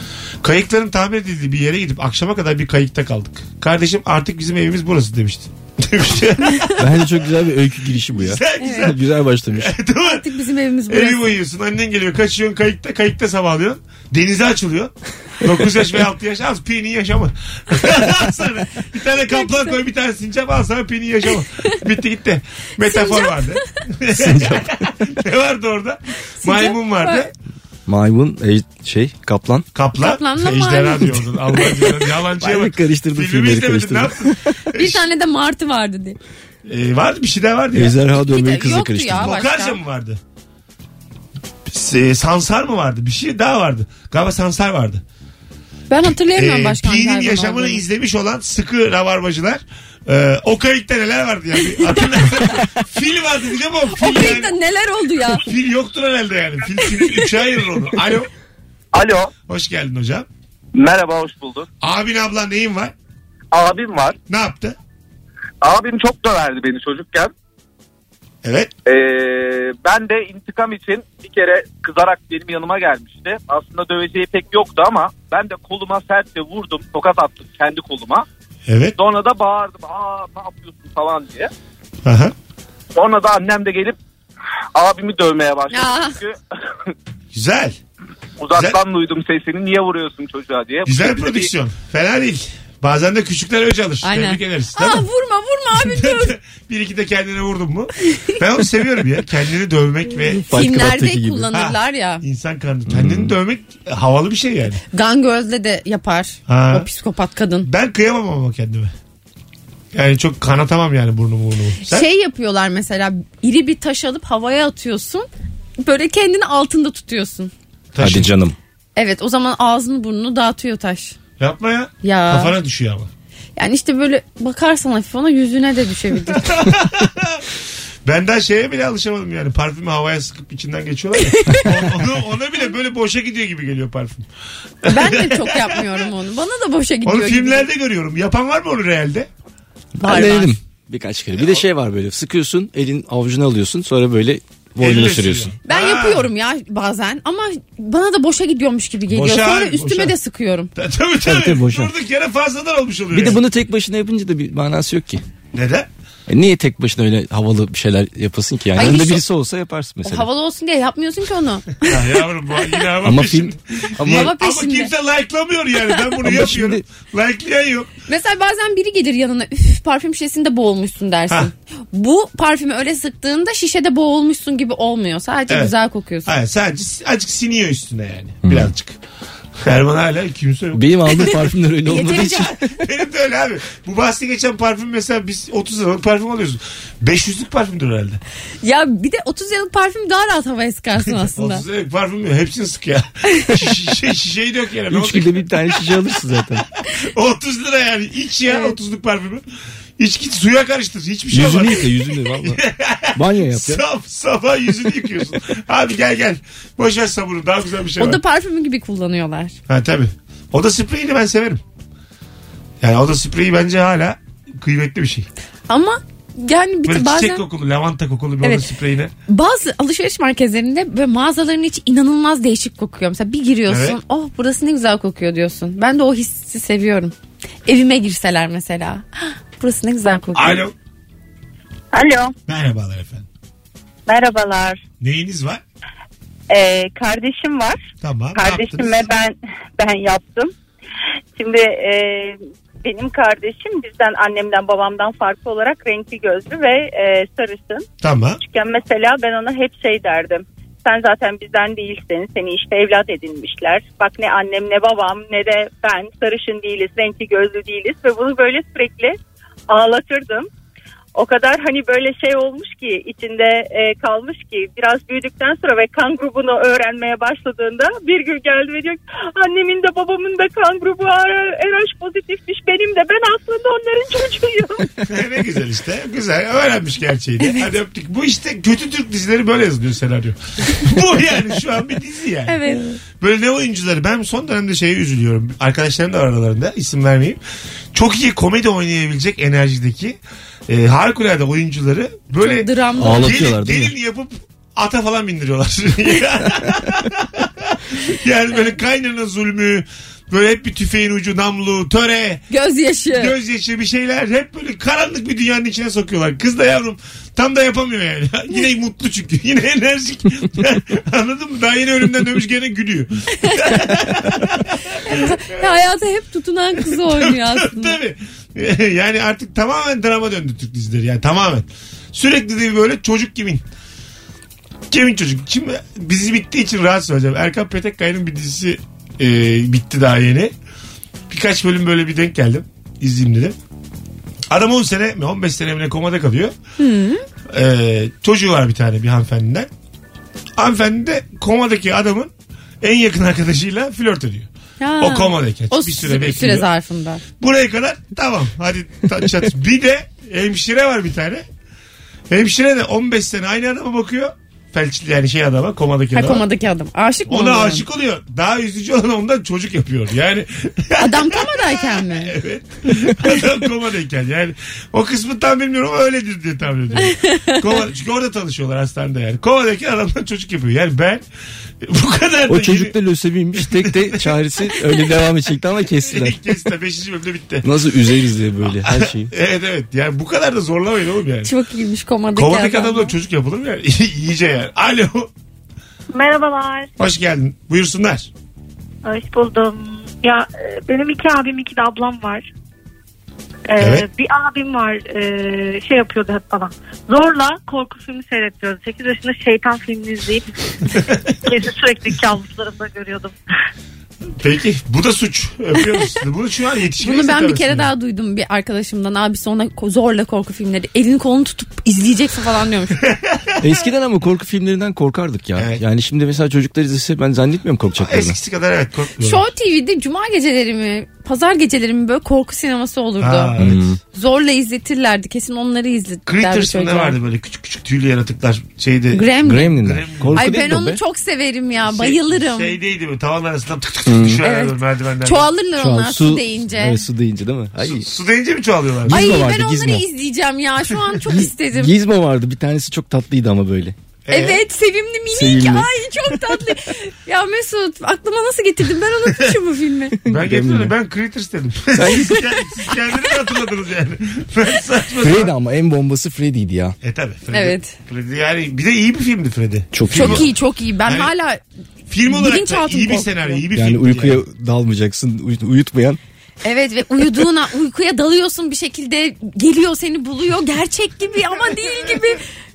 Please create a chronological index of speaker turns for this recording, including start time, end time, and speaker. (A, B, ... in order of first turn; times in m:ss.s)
0:00.4-0:07.0 A
0:06.8-0:09.7 B
0:08.2-0:10.2 A
0:08.6-0:08.9 C
0:10.0-0:11.3 C
0:10.9-0:27.3 A
0:19.3-0:19.7 C
0:22.8-0:23.6 C
0:24.1-0:24.8 B
0:26.4-0:27.3 C
0:27.9-0:29.7 B
0:29.8-0:35.0 A
0:30.0-0:31.6 C
0:32.4-0:34.6 B
0:34.7-0:36.2 C
0:36.6-0:38.0 A
0:37.7-0:39.3 B
0:38.3-0:39.8 C
0:39.2-0:40.2 A
0:41.7-0:45.0 A
0:45.9-0:47.8 C
0:46.3-0:54.5 A
0:53.9-0:55.4 C
0:55.3-0:58.3 A
0:58.9-0:59.3 D
0:59.5-1:00.3 A
1:00.7-1:01.7 D
1:01.8-1:02.9 A
1:03.5-1:04.2 D
1:04.3-1:04.8 A
1:05.6-1:07.3 D
1:08.4-1:08.7 A
1:08.9-1:18.3 D
1:18.7-1:19.0 A
1:19.0-1:21.5 D
1:22.0-1:22.3 A
1:23.0-1:24.0 D
1:24.8-1:26.4 D
1:25.7-1:26.2 C
1:27.3-1:27.8 A
1:28.4-1:31.5 D
1:28.5-1:28.8 A
1:30.9-1:35.0 A
1:34.0-1:36.3 C
1:35.8-1:40.4 A
1:40.3-1:41.5 B
1:40.5-1:42.2 C
1:41.5-1:44.8 A
1:42.9-1:43.3 B
1:44.9-1:47.7 C
1:46.5-1:46.9 A
1:47.6-1:48.9 A
1:49.9-1:52.1 A
1:51.8-1:55.3 C
1:55.8-1:57.5 C
1:57.9-1:58.3 A
1:58.0-1:58.6 B
1:59.0-2:01.2 C
2:01.4-2:03.1 A
2:02.0-2:02.6 C
2:03.6-2:06.5 C
2:06.3-2:07.5 A
2:08.0-2:14.3 A
2:11.3-2:11.7 C
2:14.8-2:16.0 A
2:14.9-2:17.7 C
2:17.0-2:19.3 A
2:20.0-2:25.5 B
2:20.0-2:20.6 C
2:24.8-2:26.3 A
2:25.7-2:30.7 C
2:29.1-2:30.2 A
2:30.8-2:33.4 A
2:31.2-2:31.9 B
2:33.1-2:35.2 B
2:35.5-2:35.9 A
2:36.3-2:40.3 B
2:38.8-2:39.2 C
2:40.0-2:42.1 C
2:41.8-2:47.9 A
2:43.0-2:44.3 B
2:44.0-2:44.9 C
2:46.2-2:46.8 B
2:48.1-2:56.3 C
2:55.5-2:59.0 A
2:58.4-2:58.7 B
2:59.6-3:01.4 A
3:00.7-3:02.7 B
3:01.8-3:02.5 C
3:02.7-3:08.2 A
3:08.6-3:11.6 C
3:11.0-3:15.8 A
3:14.9-3:16.6 B
3:16.9-3:19.4 A
3:18.5-3:18.7 C
3:20.0-3:28.2 A
3:21.3-3:22.6 B
3:23.2-3:23.8 B
3:28.0-3:29.6 C
3:29.7-3:31.6 A
3:32.8-3:35.3 A
3:35.7-3:37.4 C
3:36.8-3:39.1 A
3:39.3-3:47.1 C
3:43.7-3:44.0 A
3:47.7-3:50.6 C
3:50.4-3:50.7 A
3:51.9-3:52.3 E
3:52.5-3:53.3 A
3:54.1-3:54.8 E
3:55.0-3:55.6 A
3:56.5-3:57.8 E
3:58.0-3:59.1 A
3:58.4-4:00.5 E
4:01.4-4:07.9 E
4:08.0-4:08.4 A
4:08.4-4:19.2 E
4:19.7-4:20.5 E
4:21.2-4:34.9 E
4:35.1-4:42.6 A
4:42.5-4:43.0 C
4:43.2-4:47.4 A
4:47.9-5:02.5 A
4:52.4-4:53.4 C
4:53.0-4:53.9 B
5:02.5-5:03.4 C
5:03.1-5:15.6 A
5:13.4-5:13.8 C
5:15.0-5:18.0 C
5:16.8-5:23.6 A
5:24.9-5:30.5 A
5:31.3-5:33.6 A
5:34.5-5:36.6 A
5:36.8-5:37.2 C
5:37.5-5:39.7 A
5:40.6-5:46.7 A
5:44.8-5:47.2 C
5:47.4-5:51.4 A
5:52.3-5:56.4 A
5:56.1-5:57.8 C
5:57.3-6:11.2 A
6:01.0-6:02.4 C
6:07.0-6:07.6 C
6:11.8-6:12.9 A
6:12.5-6:16.4 B
6:13.6-6:14.4 A
6:16.0-6:17.7 A
6:17.6-6:19.3 B
6:18.7-6:21.5 A
6:21.4-6:23.1 C
6:22.3-6:25.3 A
6:26.1-6:26.9 F
6:27.0-6:28.3 A
6:29.0-6:32.5 F
6:33.7-6:40.9 F
6:33.8-6:34.1 A
6:41.4-6:43.4 F
6:44.4-6:47.9 A
6:47.0-6:53.0 C
6:53.0-6:53.5 A
6:53.6-6:58.4 B
6:58.0-6:59.5 A
6:59.2-7:03.6 C
7:03.2-7:03.8 A
7:03.6-7:04.0 B
7:04.1-7:07.2 C
7:06.3-7:10.4 A
7:09.1-7:09.8 C
7:09.4-7:11.0 B
7:10.4-7:12.8 C
7:11.8-7:15.5 A
7:14.1-7:14.4 B
7:14.4-7:17.0 C
7:15.8-7:18.1 B
7:17.8-7:19.2 A
7:19.0-7:20.1 B
7:19.1-7:21.9 C
7:21.3-7:24.0 B
7:24.3-7:24.6 A
7:24.3-7:30.2 C
7:25.3-7:25.9 B
7:30.3-7:30.9 B
7:30.3-7:35.5 A
7:32.0-7:32.4 B
7:35.2-7:37.0 B
7:37.0-7:40.5 A
7:37.5-7:37.9 C
7:39.9-7:40.5 B
7:40.1-7:41.6 C
7:41.0-7:41.3 A
7:42.1-7:44.4 A
7:42.3-7:43.6 C
7:43.7-7:46.2 B
7:46.6-7:52.4 C